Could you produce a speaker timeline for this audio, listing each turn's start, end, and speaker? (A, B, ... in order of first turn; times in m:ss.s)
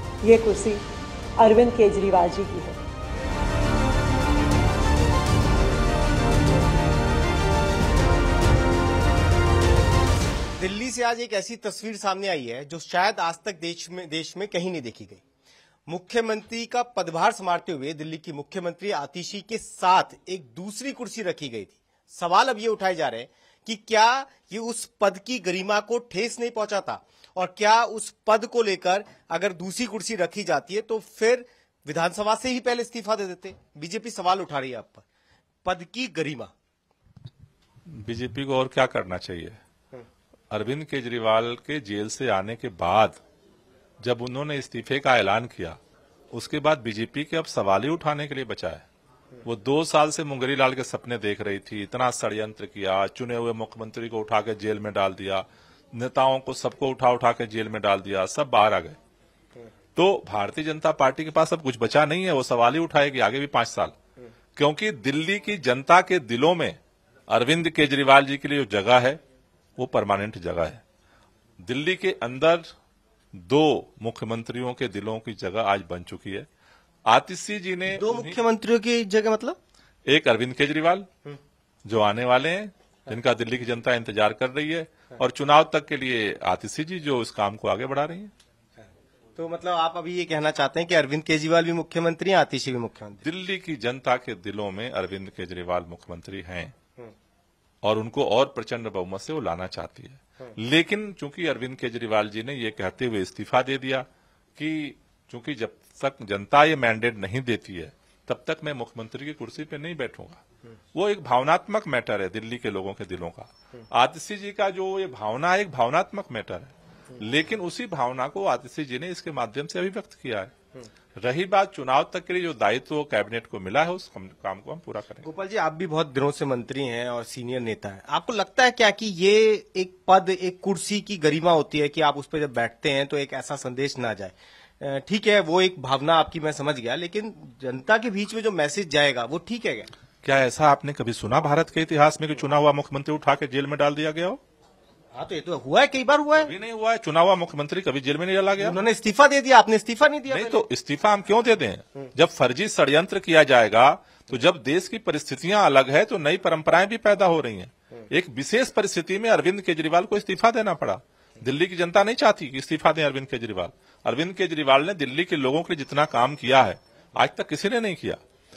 0:00.2-0:00.8 A
0:01.4-0:02.8 A
0:10.6-0:15.2 B
0:15.9-0:35.0 B
0:35.6-0:36.5 B
0:37.9-0:39.6 C
0:40.5-0:43.2 C
0:44.0-0:45.8 C
0:46.3-0:48.9 C
0:49.4-0:59.0 C
1:00.0-1:03.9 C
1:04.6-1:06.8 C
1:07.3-1:09.2 C
1:09.8-1:10.8 C
1:11.6-1:12.7 C
1:13.4-1:16.5 C
1:17.1-1:18.4 C
1:18.0-1:19.6 B
1:20.1-1:21.1 C
1:21.9-1:28.3 C
1:29.4-1:33.2 B
1:33.2-1:36.7 C
1:37.8-1:44.1 C
1:44.6-1:50.4 C
1:50.9-2:00.5 C
2:01.2-2:05.3 C
2:05.2-2:19.9 B
2:20.2-2:24.4 C
2:25.2-2:26.5 B
2:26.4-2:28.8 C
2:28.6-2:30.7 B
2:30.3-2:48.2 C